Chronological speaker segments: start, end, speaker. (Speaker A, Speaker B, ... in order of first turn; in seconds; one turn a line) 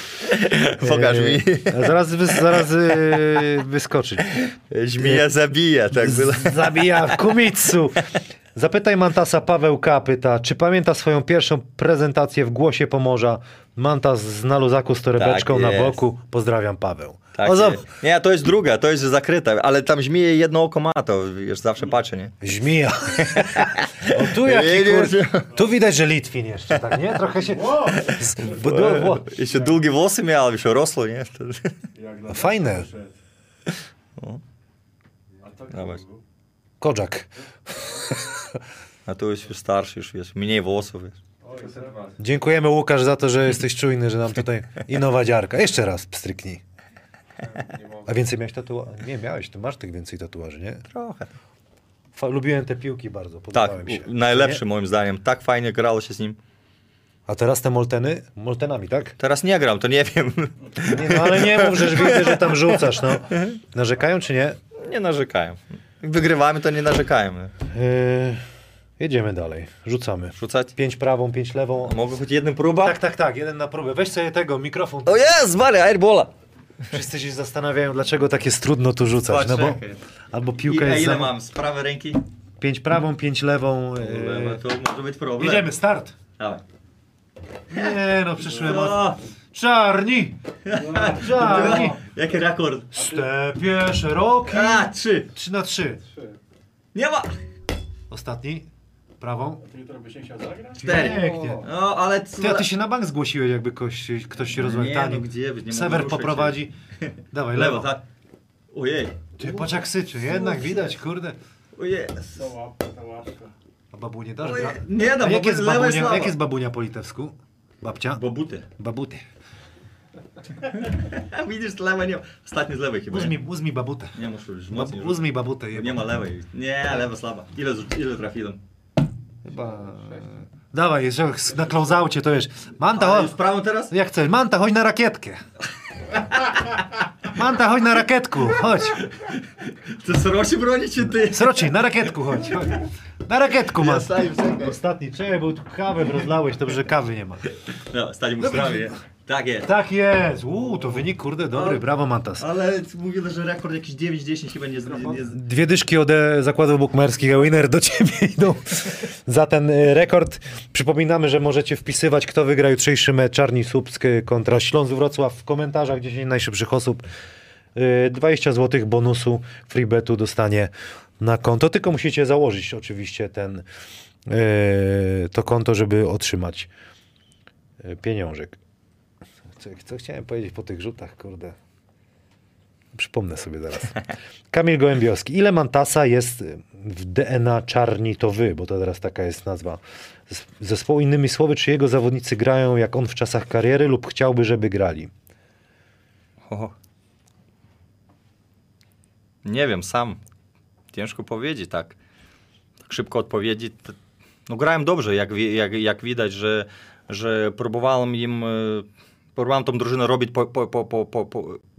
Speaker A: 0.2-3.1
Speaker B: 0.8-4.3
Speaker A: 4.3-7.2
Speaker B: 5.0-5.3
Speaker B: 6.0-17.8
Speaker A: 15.2-16.0
Speaker A: 17.4-22.4
Speaker B: 22.4-29.3
Speaker A: 23.2-25.5
Speaker C: 27.3-28.1
Speaker A: 27.9-31.8
Speaker C: 31.9-33.1
Speaker B: 32.3-32.9
Speaker C: 35.4-36.2
Speaker A: 35.7-36.0
Speaker B: 36.8-38.6
Speaker A: 39.1-41.2
Speaker C: 41.4-42.2
Speaker B: 42.2-46.6
Speaker C: 47.4-48.1
Speaker B: 48.1-50.8
Speaker A: 50.9-51.3
Speaker B: 52.1-54.6
Speaker A: 53.5-56.4
Speaker B: 57.3-59.2
Speaker A: 59.2-63.6
Speaker B: 60.8-64.6
Speaker A: 64.8-67.5
Speaker B: 67.7-68.4
Speaker B: 69.0-72.0
Speaker A: 70.4-70.7
Speaker A: 71.8-73.0
Speaker B: 72.8-75.2
Speaker A: 75.1-76.3
Speaker B: 76.9-81.3
Speaker A: 79.3-80.0
Speaker A: 80.7-82.2
Speaker B: 82.6-84.6
Speaker A: 84.0-85.7
Speaker B: 85.4-86.2
Speaker B: 87.7-90.4
Speaker A: 88.5-89.2
Speaker A: 90.7-92.9
Speaker C: 90.7-92.0
Speaker B: 91.0-92.0
Speaker B: 92.9-96.0
Speaker A: 94.5-95.3
Speaker A: 97.0-97.4
Speaker B: 98.1-98.7
Speaker B: 99.2-99.6
Speaker C: 99.7-101.6
Speaker B: 100.8-101.7
Speaker A: 100.8-102.7
Speaker B: 102.4-106.7
Speaker A: 104.5-108.0
Speaker B: 107.3-107.9
Speaker A: 108.7-109.7
Speaker B: 109.4-111.4
Speaker A: 110.2-110.9
Speaker A: 111.8-112.5
Speaker C: 112.3-113.5
Speaker B: 113.9-118.2
Speaker A: 114.4-116.3
Speaker A: 118.2-118.7
Speaker B: 118.8-119.2
Speaker A: 120.6-123.4
Speaker B: 123.1-124.2
Speaker A: 124.2-128.6
Speaker B: 124.7-126.1
Speaker B: 129.4-133.4
Speaker C: 129.6-130.2
Speaker A: 132.9-133.9
Speaker B: 133.9-135.4
Speaker A: 136.2-136.9
Speaker B: 137.2-139.0
Speaker A: 138.7-141.7
Speaker B: 141.3-147.5
Speaker A: 143.8-144.8
Speaker A: 147.7-149.7
Speaker B: 148.4-148.9
Speaker B: 149.7-152.4
Speaker A: 151.5-151.8
Speaker A: 152.4-155.4
Speaker B: 155.1-167.0
Speaker B: 167.8-173.7
Speaker B: 174.3-176.7
Speaker B: 177.8-178.6
Speaker B: 179.6-181.6
Speaker B: 182.9-195.1
Speaker A: 199.4-200.2
Speaker A: 200.9-202.0
Speaker A: 202.9-204.0
Speaker A: 204.5-211.6